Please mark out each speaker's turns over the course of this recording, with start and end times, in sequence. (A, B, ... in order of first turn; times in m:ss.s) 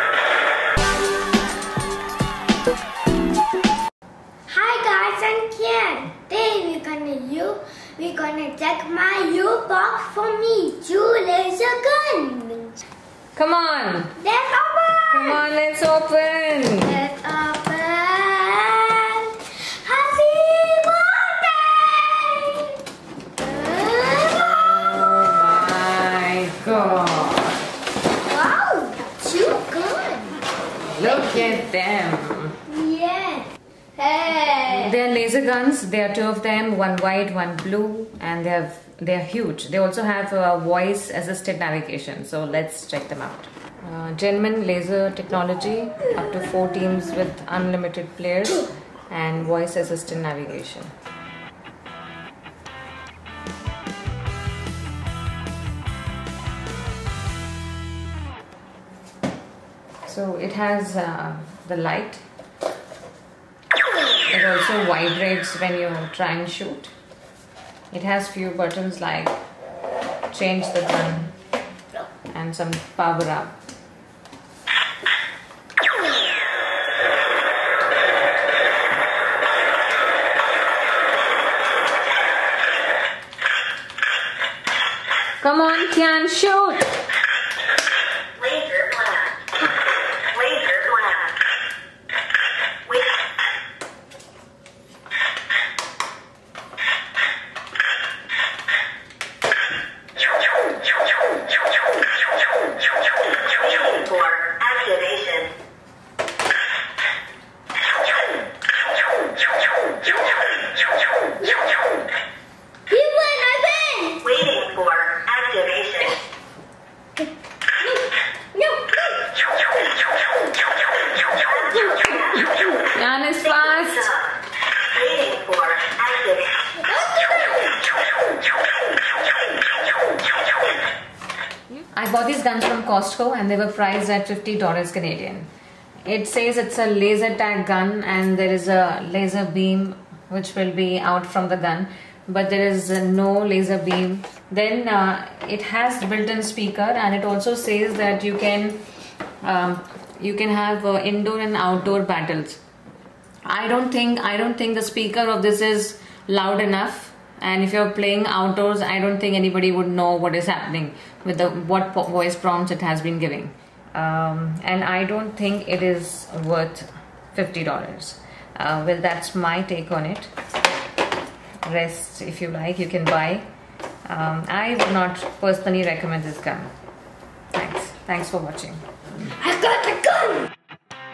0:04.5-0:12.8 A
0:13.4-0:14.1 B
0:14.2-0:15.4 A
0:15.1-0:17.0 B
0:16.8-0:22.8 A
0:23.4-0:24.7 A
0:24.3-0:27.6 B
0:28.2-0:30.4 A
0:30.9-0:32.6 B
0:31.0-0:31.6 A
0:32.7-0:35.0 A
0:34.7-0:50.9 B
1:00.0-1:02.2 B
1:04.2-1:06.9 B
1:07.9-1:09.4 B
1:10.3-1:11.3 B
1:12.3-1:13.6 B
1:25.4-1:26.9 B
1:28.4-1:29.3 C
1:30.3-1:31.3 C
1:43.5-1:45.5 C
1:50.1-1:50.4 A
1:51.4-1:51.8 A
1:52.9-1:54.6 A
1:54.6-1:56.0 C
1:57.8-1:59.3 A
2:01.5-2:02.3 A
2:02.8-2:04.2 B
2:04.9-2:06.5 C
2:06.8-2:07.8 A
2:11.9-2:15.5 B
2:16.1-2:28.8 B
2:29.4-2:32.6 B
2:33.4-2:50.3 B
2:51.6-2:53.5 B
2:54.1-2:56.7 B
2:57.5-2:58.8 B
2:59.4-3:00.5 A